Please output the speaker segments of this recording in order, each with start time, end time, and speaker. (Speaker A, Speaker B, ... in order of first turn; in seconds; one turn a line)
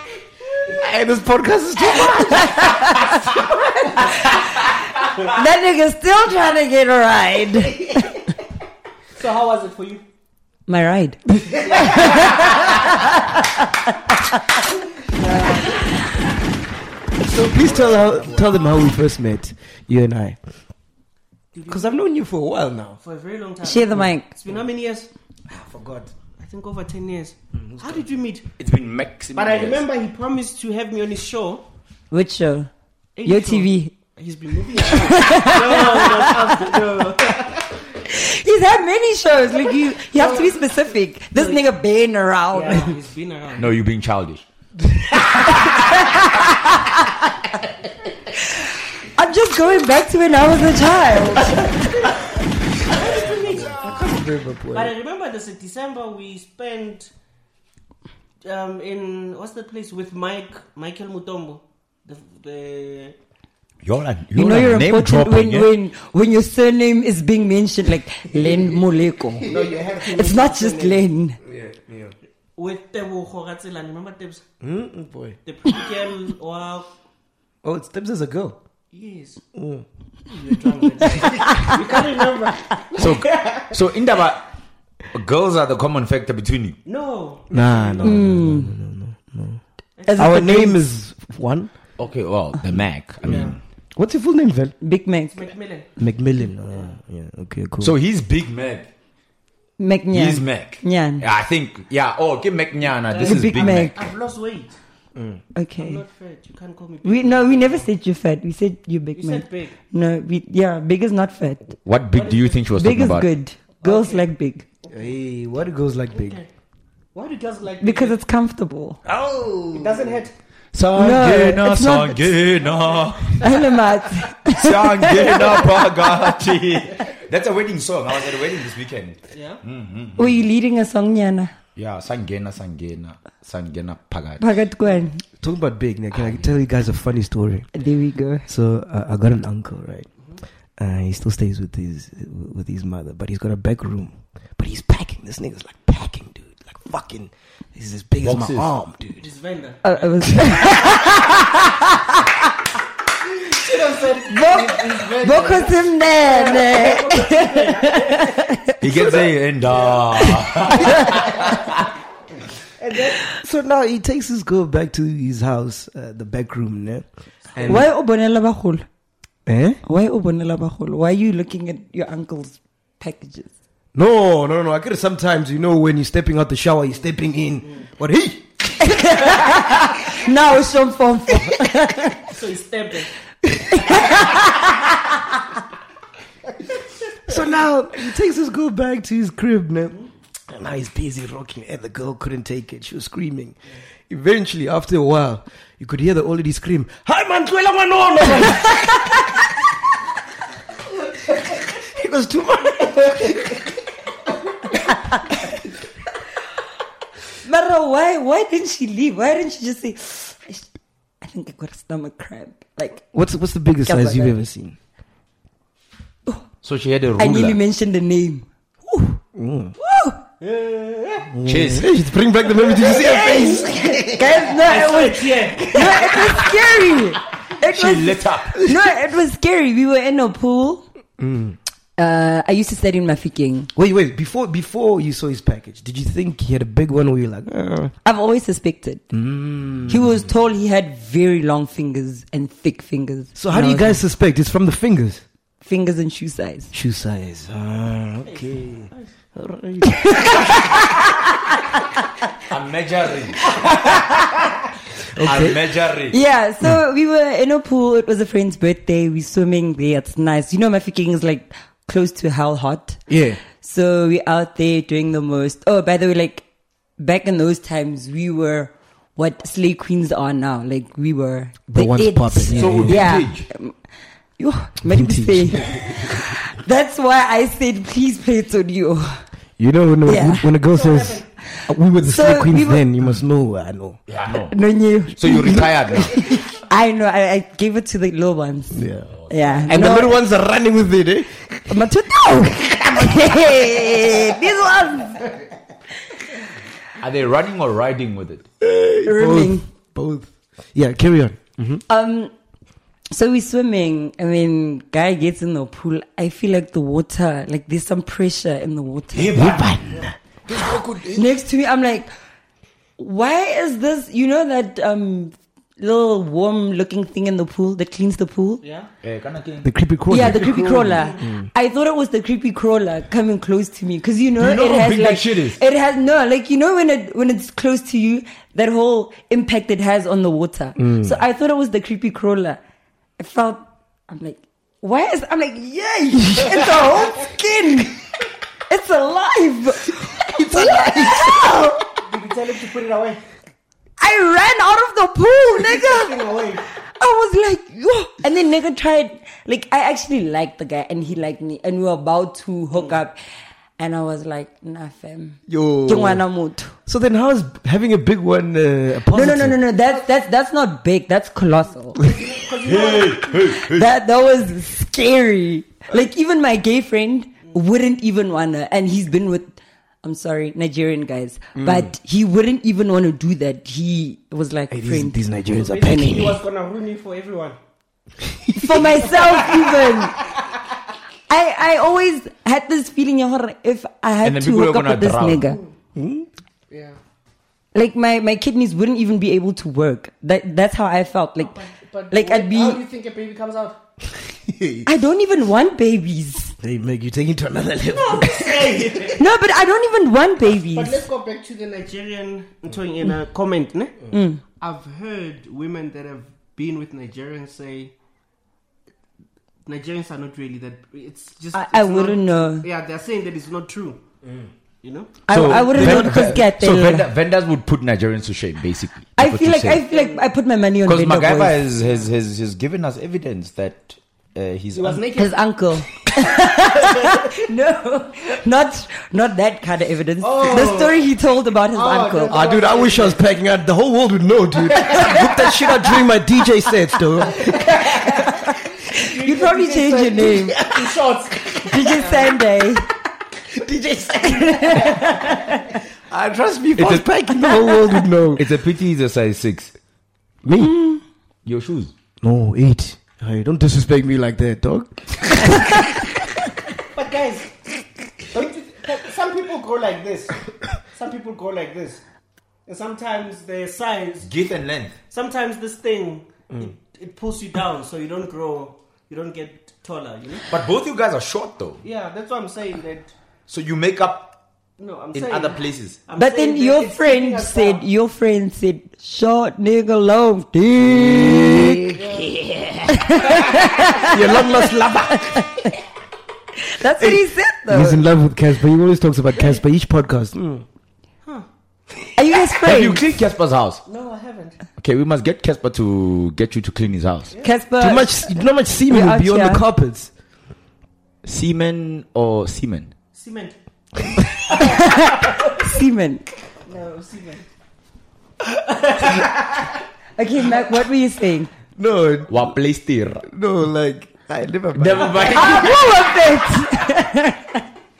Speaker A: 0.7-2.9
Speaker B: 2.3-3.1
Speaker B: 5.1-8.2
Speaker C: 9.2-10.0
Speaker B: 10.7-14.3
Speaker C: 11.6-12.4
Speaker C: 15.1-15.9
Speaker A: 17.2-20.4
Speaker C: 17.6-18.5
Speaker C: 21.5-22.0
Speaker A: 21.7-23.0
Speaker C: 23.0-25.1
Speaker B: 23.6-24.3
Speaker A: 25.5-26.1
Speaker C: 26.2-28.4
Speaker A: 27.5-28.1
Speaker D: 28.6-29.8
Speaker C: 29.3-31.6
Speaker B: 32.1-32.7
Speaker C: 33.1-37.7
Speaker B: 33.2-33.9
Speaker B: 34.8-36.8
Speaker B: 38.1-42.9
Speaker C: 40.1-40.6
Speaker C: 41.3-41.6
Speaker C: 42.5-43.8
Speaker D: 43.6-44.4
Speaker B: 45.8-47.0
Speaker B: 49.1-51.9
Speaker C: 52.8-54.0
Speaker A: 52.9-54.9
Speaker C: 54.7-57.1
Speaker C: 58.4-63.1
Speaker D: 63.8-65.7
Speaker B: 64.3-69.5
Speaker A: 68.3-68.8
Speaker A: 69.3-69.8
Speaker C: 69.4-71.0
Speaker B: 70.0-71.4
Speaker A: 71.4-72.1
Speaker C: 72.5-74.4
Speaker A: 74.6-75.4
Speaker C: 75.4-76.9
Speaker A: 77.6-78.6
Speaker C: 78.9-79.4
Speaker A: 79.5-79.8
Speaker C: 80.3-83.7
Speaker A: 81.0-81.4
Speaker D: 83.0-84.4
Speaker D: 85.1-86.8
Speaker C: 86.8-88.3
Speaker A: 87.5-89.6
Speaker B: 88.0-88.7
Speaker C: 90.0-90.4
Speaker B: 90.1-90.8
Speaker A: 90.1-91.7
Speaker D: 92.0-93.5
Speaker C: 93.2-93.5
Speaker A: 93.2-94.8
Speaker B: 94.8-95.5
Speaker C: 95.3-95.9
Speaker A: 96.0-98.0
Speaker D: 97.8-98.9
Speaker B: 99.8-101.2
Speaker D: 100.1-104.1
Speaker C: 103.1-104.8
Speaker B: 103.2-104.0
Speaker A: 105.1-105.4
Speaker B: 105.5-106.0
Speaker C: 105.8-107.9
Speaker B: 107.0-111.7
Speaker C: 109.1-109.8
Speaker D: 111.8-113.3
Speaker C: 112.1-112.6
Speaker B: 112.7-114.6
Speaker C: 113.8-114.3
Speaker A: 114.9-116.4
Speaker C: 116.1-116.5
Speaker C: 117.1-118.2
Speaker B: 117.8-119.0
Speaker A: 119.0-120.2
Speaker C: 119.7-120.3
Speaker D: 120.7-123.5
Speaker B: 120.9-122.3
Speaker C: 122.6-123.3
Speaker B: 123.4-125.8
Speaker D: 124.5-130.3
Speaker C: 129.3-129.6
Speaker B: 130.2-131.5
Speaker D: 131.8-134.4
Speaker B: 134.4-135.2
Speaker A: 135.4-137.7
Speaker B: 137.7-138.4
Speaker A: 138.5-140.1
Speaker A: 140.8-149.3
Speaker D: 148.2-148.7
Speaker C: 149.2-150.8
Speaker B: 149.8-152.2
Speaker C: 153.4-158.4
Speaker B: 154.3-158.8
Speaker D: 158.8-161.7
Speaker C: 159.6-161.7
Speaker C: 162.8-163.3
Speaker A: 163.3-167.9
Speaker B: 167.6-168.8
Speaker A: 169.4-169.8
Speaker B: 169.8-173.5
Speaker A: 173.9-179.3
Speaker B: 178.8-182.3
Speaker C: 182.3-183.1
Speaker B: 183.7-184.4
Speaker A: 187.3-190.0
Speaker A: 190.5-193.6
Speaker A: 194.1-199.2
Speaker A: 201.6-203.6
Speaker B: 207.4-210.7
Speaker B: 211.2-213.1
Speaker A: 213.1-214.8
Speaker B: 213.8-214.3
Speaker D: 216.6-217.6
Speaker B: 217.2-218.4
Speaker A: 218.9-219.7
Speaker B: 219.8-220.2
Speaker C: 220.4-221.3
Speaker A: 221.3-224.3
Speaker D: 221.4-221.9
Speaker C: 222.7-226.2
Speaker B: 224.1-230.8
Speaker D: 227.6-228.5
Speaker A: 231.2-231.6
Speaker B: 232.0-233.7
Speaker A: 233.7-237.9
Speaker B: 238.0-239.1
Speaker A: 239.1-240.2
Speaker B: 239.8-244.0
Speaker A: 243.3-245.2
Speaker B: 245.6-246.7
Speaker A: 246.7-250.5
Speaker C: 248.2-249.1
Speaker B: 249.9-251.0
Speaker D: 252.5-254.0
Speaker A: 255.1-255.6
Speaker D: 255.2-256.2
Speaker B: 256.1-266.4
Speaker A: 263.1-263.4
Speaker B: 267.0-273.8
Speaker A: 271.7-273.1
Speaker D: 272.5-273.5
Speaker B: 274.4-279.2
Speaker A: 274.8-275.9
Speaker A: 279.6-284.0
Speaker B: 280.1-280.5
Speaker C: 280.7-281.2
Speaker B: 281.5-282.8
Speaker D: 284.1-286.4
Speaker B: 284.5-290.2
Speaker A: 288.7-289.1
Speaker D: 289.1-289.6
Speaker A: 289.7-291.7
Speaker B: 291.7-295.4
Speaker D: 297.0-298.4
Speaker A: 298.6-301.8
Speaker B: 299.0-299.6
Speaker B: 301.9-302.3
Speaker B: 303.1-309.5
Speaker D: 309.1-311.2
Speaker A: 309.3-311.0
Speaker B: 311.1-312.1
Speaker B: 313.0-318.6
Speaker C: 318.6-318.9
Speaker D: 319.0-319.7
Speaker A: 319.6-321.4
Speaker B: 320.1-332.6
Speaker C: 321.0-321.2
Speaker D: 324.4-325.6
Speaker A: 330.8-331.1
Speaker B: 333.2-338.0
Speaker B: 338.7-341.8
Speaker A: 339.9-341.7
Speaker C: 342.0-343.2
Speaker B: 344.0-346.1
Speaker C: 345.6-346.6
Speaker B: 346.9-353.2
Speaker B: 353.8-356.7
Speaker A: 355.5-356.2
Speaker A: 356.9-359.6
Speaker B: 359.1-362.0
Speaker C: 362.0-363.4
Speaker D: 362.6-363.9
Speaker B: 363.5-375.2
Speaker A: 371.6-371.9
Speaker A: 374.7-376.4
Speaker C: 375.5-377.6
Speaker A: 378.2-379.1
Speaker B: 378.6-380.2
Speaker C: 379.1-379.7
Speaker B: 381.3-385.6
Speaker D: 384.2-385.4
Speaker A: 385.9-386.3
Speaker C: 386.7-387.0
Speaker B: 387.7-392.8
Speaker C: 391.4-393.8
Speaker A: 394.4-394.9
Speaker B: 394.9-396.5
Speaker A: 396.6-399.1
Speaker C: 397.9-399.2
Speaker B: 399.1-401.0
Speaker C: 400.7-404.0
Speaker B: 404.1-404.4
Speaker C: 404.6-407.9
Speaker C: 409.6-414.0
Speaker B: 411.5-412.6
Speaker C: 414.8-415.1
Speaker B: 415.3-417.1
Speaker D: 415.3-419.8
Speaker A: 415.5-416.5
Speaker B: 419.2-421.6
Speaker C: 419.8-420.3
Speaker D: 420.9-425.0
Speaker C: 421.8-422.1
Speaker C: 424.7-425.4
Speaker B: 425.1-432.4
Speaker C: 430.2-431.0
Speaker C: 431.7-433.2
Speaker A: 432.3-437.6
Speaker C: 434.8-435.4
Speaker C: 437.4-438.2
Speaker B: 438.4-440.6
Speaker C: 438.9-442.3
Speaker B: 441.7-442.9
Speaker A: 443.6-444.8
Speaker C: 444.3-445.1
Speaker B: 444.5-445.6
Speaker A: 446.1-448.5
Speaker D: 446.8-447.1
Speaker D: 448.4-449.7
Speaker A: 450.4-450.9
Speaker B: 450.6-451.0
Speaker D: 451.4-451.9
Speaker A: 452.2-455.9
Speaker C: 456.9-457.5
Speaker C: 458.3-462.0
Speaker C: 462.6-464.3
Speaker D: 464.2-464.9
Speaker C: 465.1-470.5
Speaker D: 470.5-471.8
Speaker C: 471.8-473.1
Speaker D: 473.5-474.3
Speaker C: 474.8-477.8
Speaker D: 475.1-476.0
Speaker B: 476.1-481.8
Speaker A: 480.8-485.5
Speaker C: 481.9-482.3
Speaker B: 482.9-485.7
Speaker B: 486.6-488.0
Speaker A: 487.0-490.6
Speaker B: 492.1-493.1
Speaker D: 492.6-493.8
Speaker C: 493.9-494.6
Speaker D: 494.8-497.3
Speaker B: 497.4-498.3
Speaker A: 497.8-500.1
Speaker B: 498.9-499.6
Speaker D: 501.2-502.9
Speaker C: 503.1-503.6
Speaker C: 504.5-505.4
Speaker B: 504.6-506.2
Speaker C: 506.6-507.4
Speaker C: 508.5-509.7
Speaker B: 510.2-511.5
Speaker A: 511.8-512.5
Speaker D: 512.3-513.3
Speaker A: 513.2-515.5
Speaker D: 514.7-515.8
Speaker B: 515.3-517.6